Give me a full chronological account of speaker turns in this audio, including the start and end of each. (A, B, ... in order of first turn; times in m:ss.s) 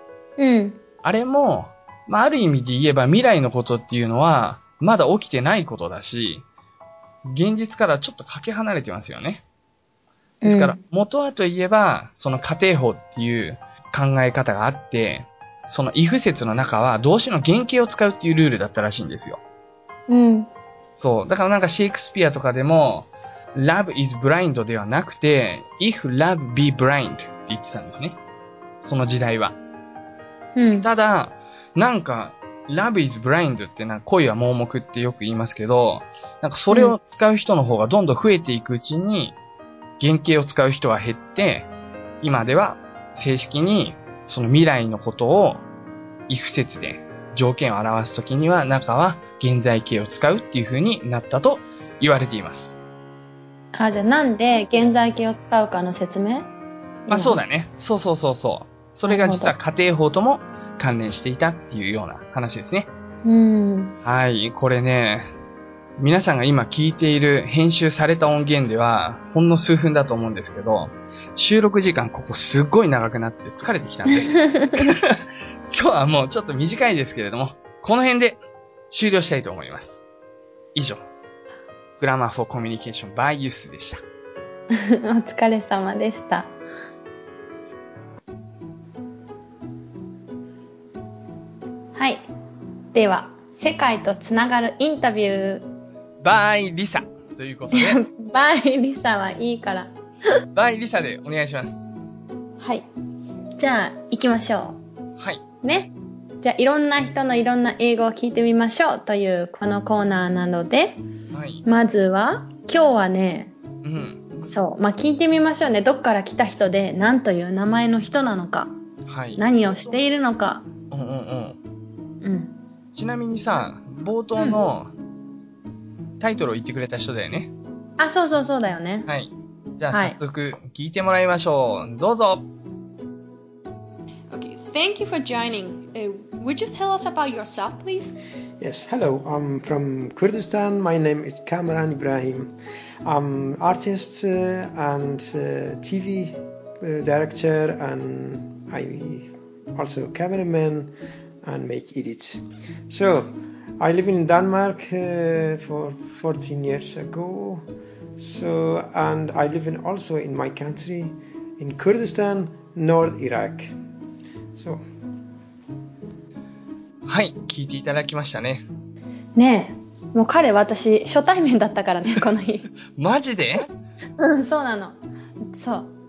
0:00.4-0:00.8 A
0:01.0-0:06.4 B
0:07.2-0:09.4 B
0:10.4-0:10.8 A
0:10.4-0:19.4 B
0:20.1-0:20.5 A
0:21.0-0:28.2 B
0:28.8-0:29.6 B
0:30.6-0:30.9 A
0:30.8-0:39.4 B
0:40.0-0:41.7 B
0:42.2-0:45.6 B
0:46.3-0:52.8 B
0:53.7-0:56.5 A
0:57.1-0:57.4 A
0:57.1-1:02.9 B
0:59.1-0:59.5 A
1:03.2-1:04.0 A
1:04.0-1:05.3 B
1:06.0-1:15.2 B
1:14.3-1:14.9 A
1:15.7-1:20.0 B
1:20.8-1:21.0 B
1:22.0-1:24.0 B
1:24.7-1:26.5 A
1:32.0-1:32.2 A
1:32.9-1:35.7 A
1:36.2-1:38.0 B
1:37.7-1:39.9 A
1:40.5-1:41.9 B
1:42.6-1:42.9 A
1:43.6-1:44.8 A
1:45.6-1:51.0 A
1:51.3-1:51.6 B
1:51.6-1:53.5 A
1:53.8-1:54.5 B
1:54.4-1:58.7 A
1:59.1-2:00.0 B
1:59.4-2:00.7 A
2:00.9-2:01.6 B
2:02.2-2:02.5 A
2:02.9-2:04.9 B
2:04.4-2:04.7 A
2:06.2-2:07.5 B
2:08.0-2:09.1 A
2:09.1-2:12.5 B
2:09.9-2:10.2 A
2:14.3-2:18.2 C
2:18.6-2:30.9 D
2:31.4-2:37.6 D
2:38.2-2:43.7 D
2:44.6-2:44.8 D
2:47.1-2:48.6 B
2:49.4-2:52.7 A
2:53.0-2:53.7 B
2:54.2-2:55.0 A
2:55.5-2:55.9 A